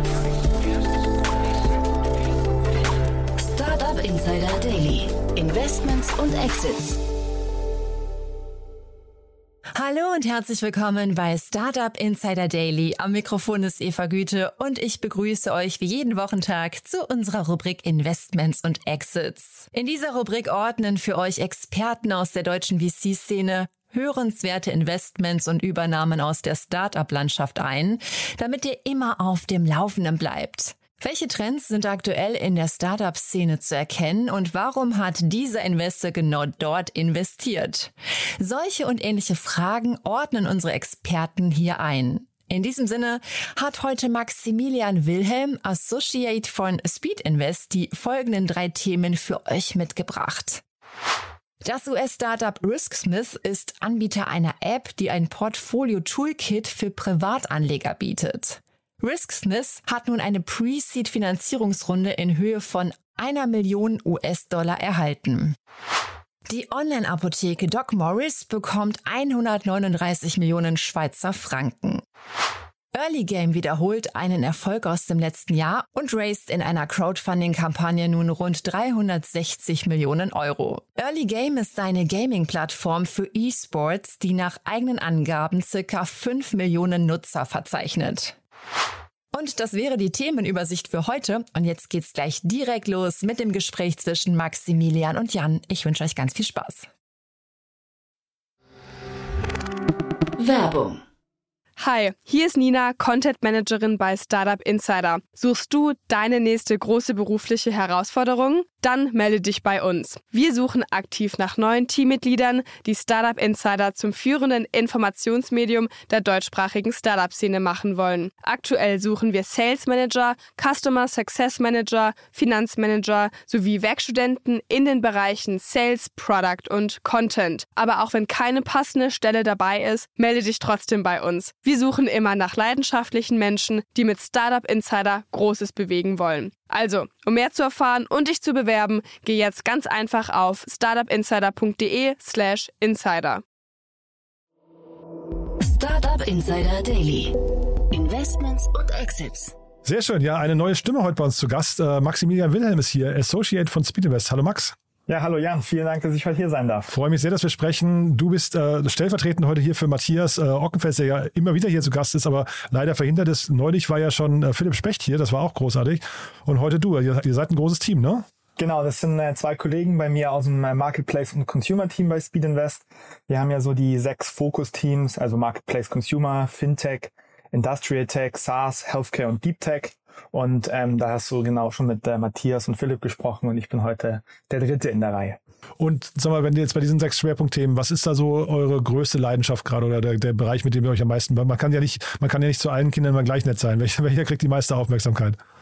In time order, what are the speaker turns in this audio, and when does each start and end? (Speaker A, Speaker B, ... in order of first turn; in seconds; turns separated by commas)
Speaker A: 3.4-7.0, Speaker B: 9.8-50.6, Speaker B: 51.6-65.5, Speaker B: 66.5-72.0, Speaker B: 72.9-88.3, Speaker B: 89.3-96.9, Speaker A: 100.4-101.0, Speaker C: 101.8-143.4, Speaker A: 145.6-147.3, Speaker A: 147.9-149.5, Speaker D: 149.8-154.7, Speaker E: 155.1-156.9, Speaker D: 156.9-168.2, Speaker E: 168.6-185.4, Speaker D: 185.8-195.4